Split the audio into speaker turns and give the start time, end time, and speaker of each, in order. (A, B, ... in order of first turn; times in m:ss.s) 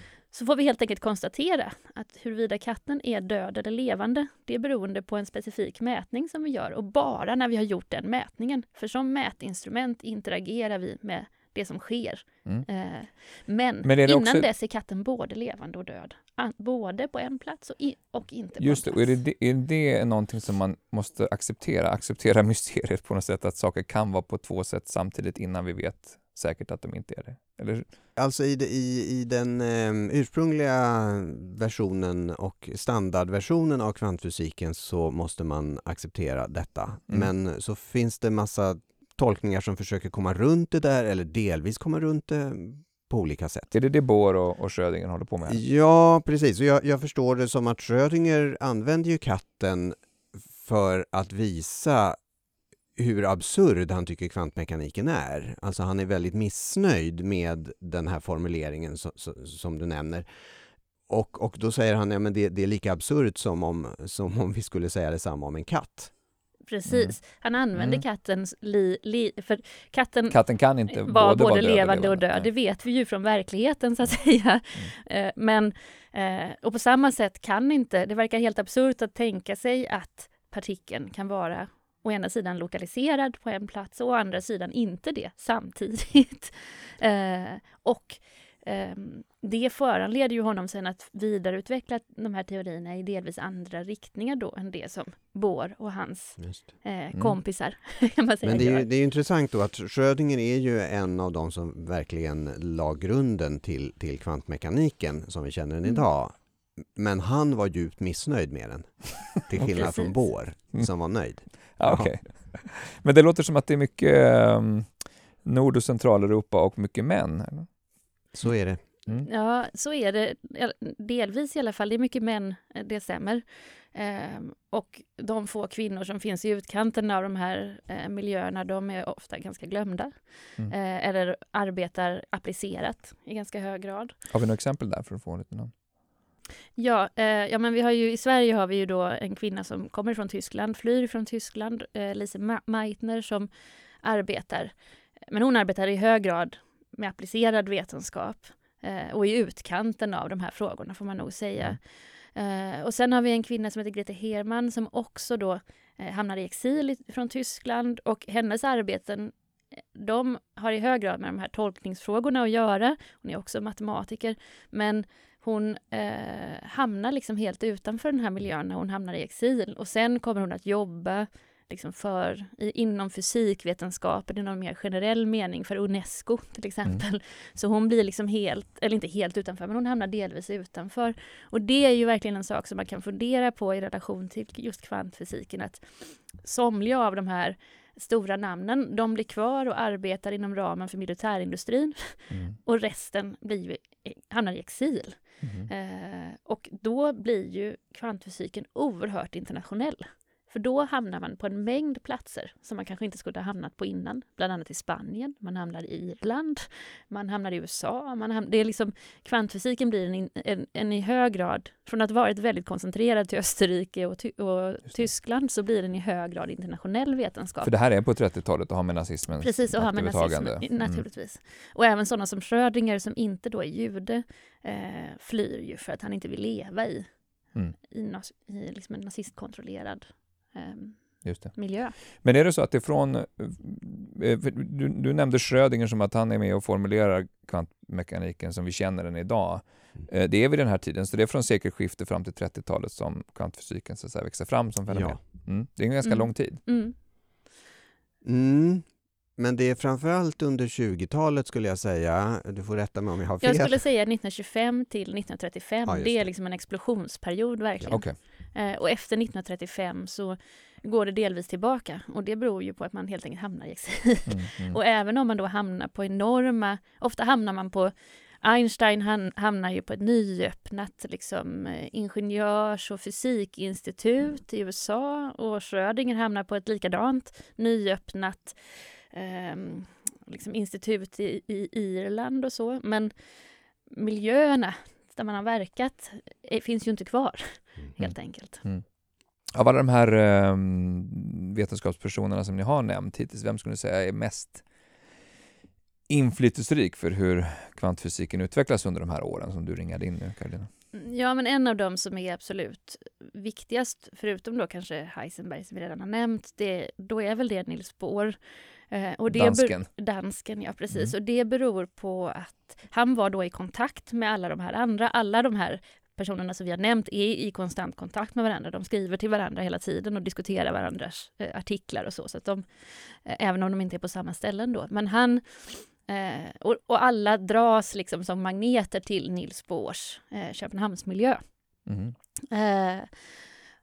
0:00.3-0:19.1 A
0:13.8-0:14.5 B
0:18.6-0:27.8 B
0:28.2-0:43.7 C
0:43.7-0:45.6 B
0:45.5-0:50.0 C
0:50.6-0:52.2 C
0:53.0-1:00.2 C
1:01.1-1:06.1 C
1:06.7-1:10.4 A
1:06.9-1:07.2 B
1:07.7-1:08.0 B
1:10.3-1:12.5 B
1:10.9-1:38.9 A
1:38.4-1:52.1 C
1:49.6-1:50.1 A
1:51.8-1:57.7 B
1:58.3-1:58.8 C
1:59.2-2:14.1 A
2:14.3-2:15.7 B
2:16.8-2:23.5 A
2:24.0-2:24.7 A
2:25.3-2:31.8 A
2:32.3-2:39.3 A
2:39.9-3:37.7 A
3:12.3-3:12.6 B
3:15.4-3:15.7 B
3:37.6-3:41.0 B
3:39.4-3:47.1 A
3:47.8-3:51.9 A
3:51.2-4:06.6 B
4:04.9-4:05.2 C
4:06.0-4:06.9 A
4:08.2-4:13.8 C
4:13.4-4:43.1 A
4:15.9-4:16.3 C
4:17.9-4:18.2 B
4:24.3-4:24.8 B
4:43.9-4:48.6 A
4:48.0-4:48.8 B
4:49.5-4:54.6 B
4:56.1-5:00.7 B
5:00.9-5:08.4 A
5:08.9-5:31.4 A
5:09.3-5:09.9 B
5:31.9-5:32.1 B
5:32.5-5:33.4 A